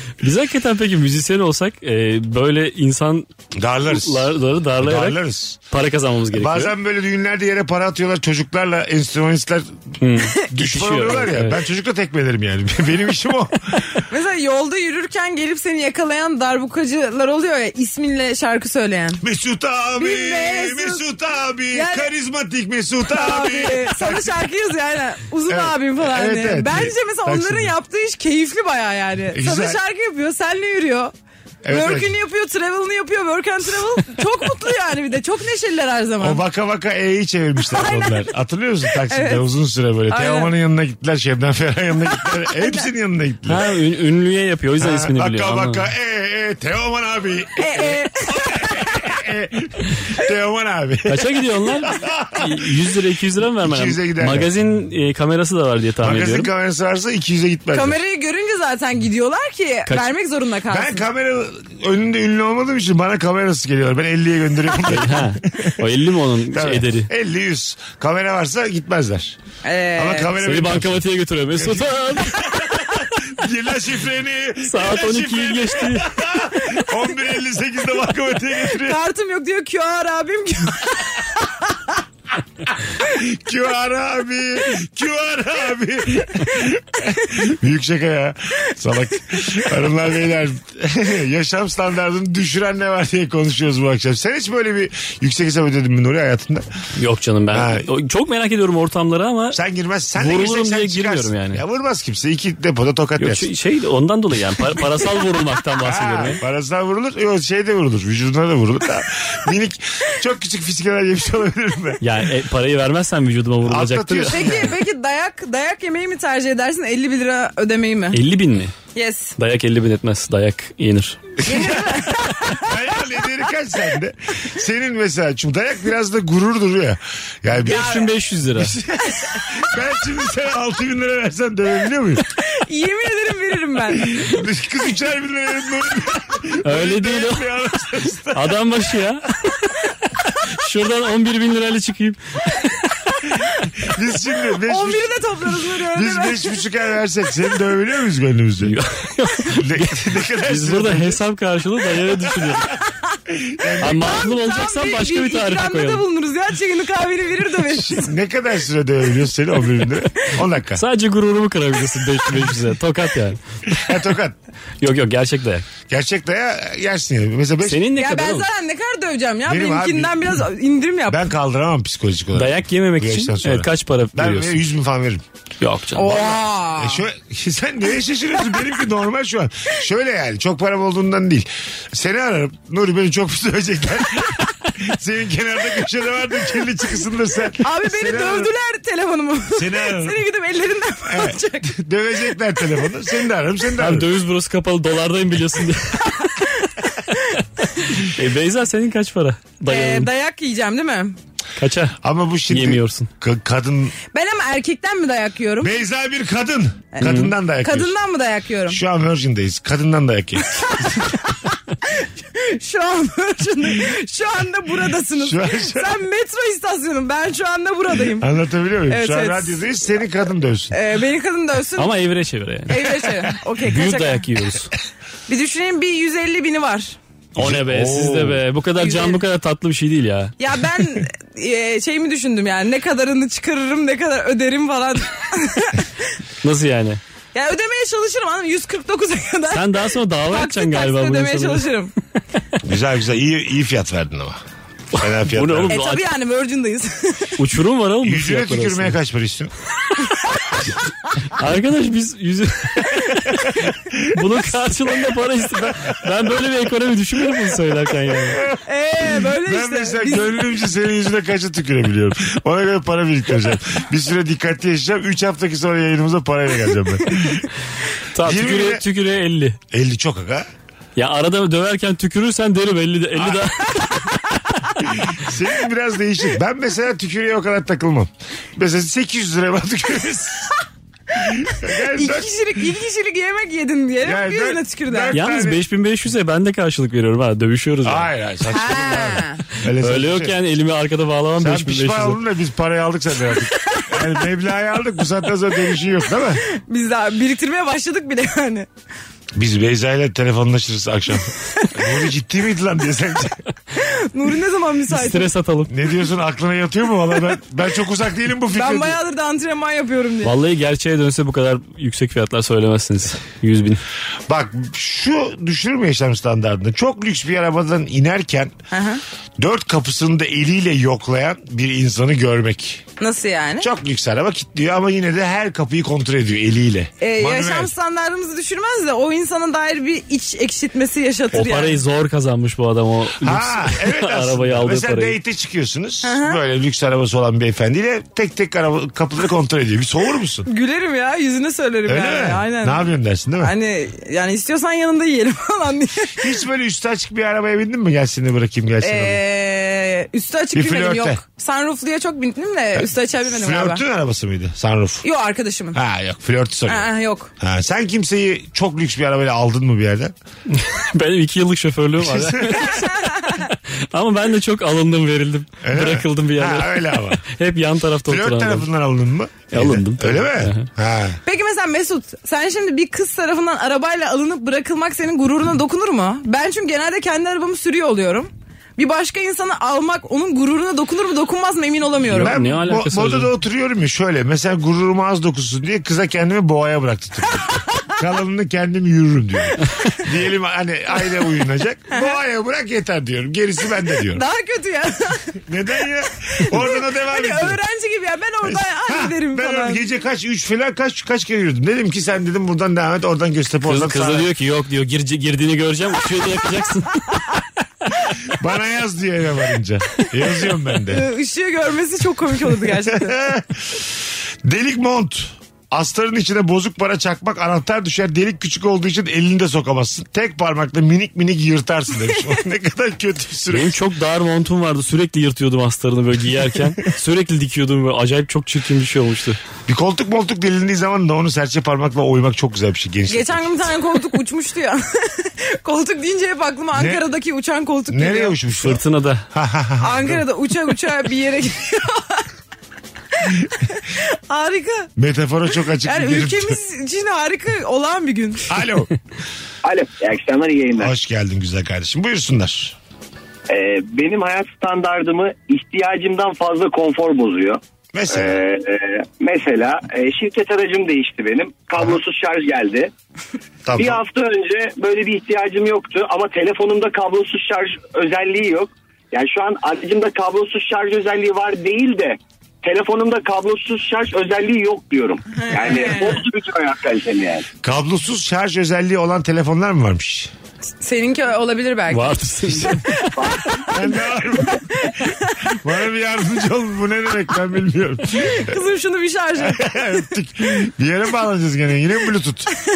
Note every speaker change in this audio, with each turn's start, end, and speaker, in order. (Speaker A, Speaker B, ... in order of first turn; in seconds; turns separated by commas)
Speaker A: 0.2-3.3, Speaker B: 3.6-5.6, Speaker A: 3.9-5.2, Speaker A: 5.7-6.7, Speaker B: 6.3-9.7, Speaker A: 10.0-11.6, Speaker B: 10.5-14.0, Speaker C: 14.1-19.2, Speaker B: 19.2-24.4, Speaker C: 20.0-21.0, Speaker C: 21.7-22.1, Speaker C: 23.1-31.1, Speaker B: 25.5-27.7, Speaker B: 29.3-29.8, Speaker B: 31.6-32.2, Speaker C: 31.7-36.4, Speaker B: 36.2-43.6, Speaker C: 37.7-38.2, Speaker C: 39.1-39.4, Speaker C: 40.1-40.5, Speaker C: 42.5-42.9, Speaker A: 43.5-45.9, Speaker B: 44.8-52.7, Speaker C: 47.6-48.9, Speaker A: 51.1-56.5, Speaker B: 53.6-54.5, Speaker B: 56.0-58.0, Speaker C: 57.7-61.0, Speaker B: 60.7-65.8, Speaker A: 64.9-67.1, Speaker B: 66.5-69.4, Speaker C: 69.6-70.3, Speaker B: 70.0-79.0, Speaker A: 70.4-72.6, Speaker A: 74.6-76.1, Speaker C: 78.8-81.8, Speaker B: 83.0-96.7, Speaker A: 97.0-99.6, Speaker B: 97.5-97.9, Speaker B: 99.5-103.5, Speaker A: 100.2-101.6, Speaker A: 103.2-106.4, Speaker B: 105.8-112.1, Speaker A: 112.0-114.6, Speaker B: 113.7-114.8, Speaker C: 114.3-118.2, Speaker A: 118.1-118.7, Speaker C: 119.0-119.3, Speaker A: 119.4-121.3, Speaker B: 121.4-132.2, Speaker C: 121.4-122.7, Speaker A: 127.6-128.8, Speaker C: 127.7-128.1, Speaker C: 132.4-134.3, Speaker B: 133.9-138.6, Speaker A: 136.6-137.5, Speaker A: 138.3-139.8, Speaker A: 140.4-142.8, Speaker B: 143.8-145.2, Speaker C: 144.7-146.5, Speaker B: 145.9-148.8, Speaker A: 148.6-152.7, Speaker B: 149.5-151.2, Speaker B: 153.3-154.2, Speaker A: 153.8-156.1, Speaker C: 153.9-158.1, Speaker B: 157.7-160.8, Speaker A: 160.8-163.4, Speaker B: 163.7-164.4, Speaker A: 164.8-165.7, Speaker B: 165.9-167.9, Speaker A: 167.7-168.5, Speaker C: 167.9-171.3, Speaker B: 169.5-170.4, Speaker B: 171.1-175.2, Speaker A: 172.3-174.6, Speaker A: 175.6-176.2, Speaker C: 176.0-177.0, Speaker B: 176.0-188.5, Speaker C: 187.6-191.7, Speaker B: 189.5-190.2, Speaker B: 191.1-194.1, Speaker A: 193.8-196.2, Speaker C: 196.2-197.4, Speaker A: 198.0-200.1, Speaker C: 199.7-201.2, Speaker A: 201.6-203.1, Speaker B: 202.0-203.9, Speaker C: 204.1-205.8, Speaker B: 205.6-207.9, Speaker C: 206.9-208.8, Speaker A: 207.0-207.3, Speaker B: 208.7-211.2, Speaker C: 210.6-218.3, Speaker B: 215.2-216.0, Speaker B: 218.2-220.8, Speaker C: 218.9-219.6, Speaker C: 220.7-221.9, Speaker A: 221.8-222.8, Speaker C: 222.7-224.2, Speaker A: 223.7-224.7, Speaker C: 225.3-227.0, Speaker A: 227.3-230.3, Speaker B: 227.4-228.4, Speaker C: 228.8-229.2, Speaker C: 230.4-235.9, Speaker A: 236.4-237.0, Speaker C: 237.3-241.9, Speaker A: 239.5-241.7, Speaker B: 242.6-244.4, Speaker B: 244.9-245.8, Speaker A: 245.0-246.1, Speaker C: 245.7-247.4, Speaker A: 247.4-249.0, Speaker B: 248.0-249.5, Speaker A: 251.3-253.5, Speaker B: 253.9-254.2, Speaker A: 254.1-258.4, Speaker B: 258.3-267.5, Speaker C: 258.7-260.4, Speaker A: 268.1-269.6, Speaker B: 268.2-268.9, Speaker B: 269.7-270.5, Speaker A: 271.0-274.1, Speaker B: 273.2-273.4, Speaker B: 274.8-280.6, Speaker B: 281.1-282.3, Speaker C: 281.9-285.2, Speaker B: 284.0-285.6, Speaker A: 285.1-288.1, Speaker B: 287.8-290.4, Speaker C: 288.5-289.4, Speaker A: 289.8-292.2, Speaker B: 291.4-296.4, Speaker C: 296.5-298.7, Speaker B: 299.4-303.4, Speaker C: 303.7-305.3, Speaker A: 304.9-305.7, Speaker B: 305.7-309.0, Speaker C: 308.5-310.3, Speaker A: 310.2-313.8, Speaker B: 314.3-318.5, Speaker C: 318.7-319.0, Speaker B: 319.4-322.9, Speaker C: 323.0-323.7, Speaker B: 323.6-327.7, Speaker C: 327.0-331.8, Speaker A: 331.3-335.2, Speaker B: 333.2-340.5, Speaker C: 336.0-336.4, Speaker C: 340.5-342.9, Speaker B: 341.9-343.5, Speaker C: 343.4-346.2, Speaker B: 346.2-349.2, Speaker C: 348.8-353.8, Speaker B: 350.5-351.2, Speaker B: 352.8-355.1, Speaker C: 355.0-355.8, Speaker B: 355.7-360.1, Speaker C: 356.7-357.3, Speaker A: 360.5-362.9, Speaker B: 362.0-362.8, Speaker C: 362.5-363.5, Speaker A: 363.5-368.7, Speaker B: 365.6-367.2, Speaker B: 368.1-371.2, Speaker A: 369.5-370.7, Speaker C: 371.2-382.4, Speaker A: 382.1-383.3, Speaker B: 382.1-394.2, Speaker C: 391.9-392.2, Speaker C: 394.1-395.4, Speaker B: 395.5-397.6, Speaker C: 396.4-399.8, Speaker B: 398.4-404.3, Speaker A: 403.7-407.3, Speaker B: 408.3-411.1, Speaker C: 410.9-413.2, Speaker B: 412.6-413.9, Speaker B: 414.4-423.8, Speaker A: 423.5-429.4, Speaker B: 429.7-433.6, Speaker C: 433.1-438.4, Speaker B: 436.7-437.1, Speaker B: 437.9-440.2, Speaker A: 438.6-439.3, Speaker C: 439.8-442.3, Speaker C: 443.2-444.9, Speaker B: 445.0-446.6, Speaker C: 445.9-448.5, Speaker B: 448.5-448.9, Speaker D: 449.6-450.9, Speaker B: 450.8-452.8, Speaker D: 453.5-462.9, Speaker B: 457.9-458.4, Speaker B: 463.6-464.0, Speaker D: 463.8-477.5, Speaker C: 475.4-476.2, Speaker B: 477.6-480.3, Speaker C: 480.8-483.9, Speaker A: 481.9-483.1, Speaker D: 483.2-483.4, Speaker B: 483.7-488.5, Speaker C: 484.5-485.4, Speaker C: 488.2-489.8, Speaker B: 489.4-492.5